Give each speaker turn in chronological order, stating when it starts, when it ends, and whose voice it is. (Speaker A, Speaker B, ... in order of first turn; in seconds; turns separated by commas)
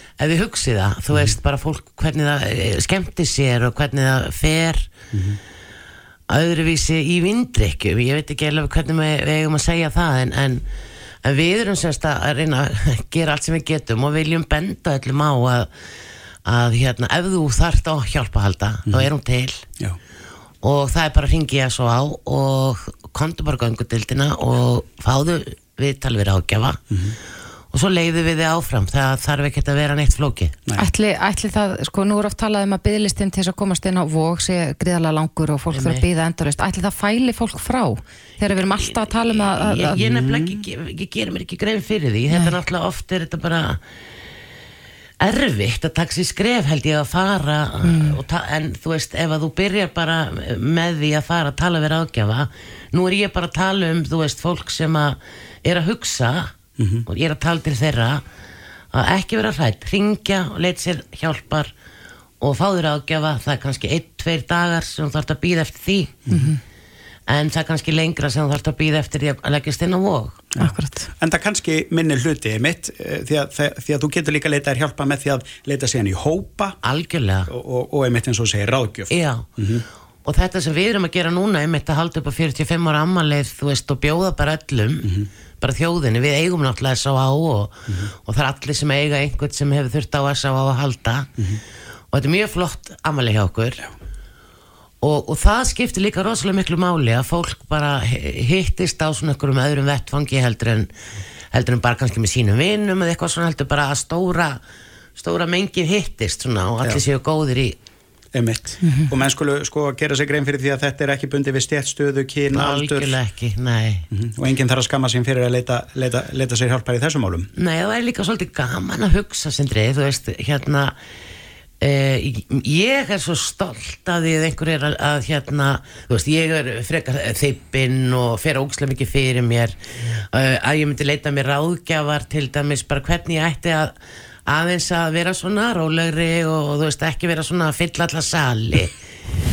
Speaker A: 0.2-5.0, Speaker B: 5.1-5.4, Speaker A: 6.3-10.7, Speaker A: 11.2-15.7, Speaker A: 16.4-19.7, Speaker B: 18.9-19.1, Speaker A: 20.6-26.8, Speaker B: 26.9-27.2, Speaker A: 27.7-30.6, Speaker C: 30.8-40.0, Speaker A: 35.7-36.1, Speaker A: 38.5-43.8, Speaker B: 40.0-40.6, Speaker A: 45.2-58.2, Speaker C: 47.8-48.2, Speaker B: 56.8-57.0, Speaker A: 58.9-61.7, Speaker A: 62.4-66.2, Speaker C: 66.3-66.6, Speaker A: 67.3-70.4, Speaker B: 70.5-76.8, Speaker C: 70.6-71.1, Speaker A: 76.8-77.5, Speaker B: 77.5-79.8, Speaker A: 79.1-79.7, Speaker A: 80.2-91.3, Speaker B: 85.0-85.3, Speaker A: 92.1-93.9, Speaker A: 95.0-100.9, Speaker A: 101.5-104.6, Speaker A: 105.2-107.8, Speaker B: 108.3-113.2, Speaker C: 108.8-109.1, Speaker A: 112.5-114.1, Speaker B: 114.1-117.5, Speaker A: 117.6-121.0, Speaker A: 121.8-133.9, Speaker A: 134.5-138.9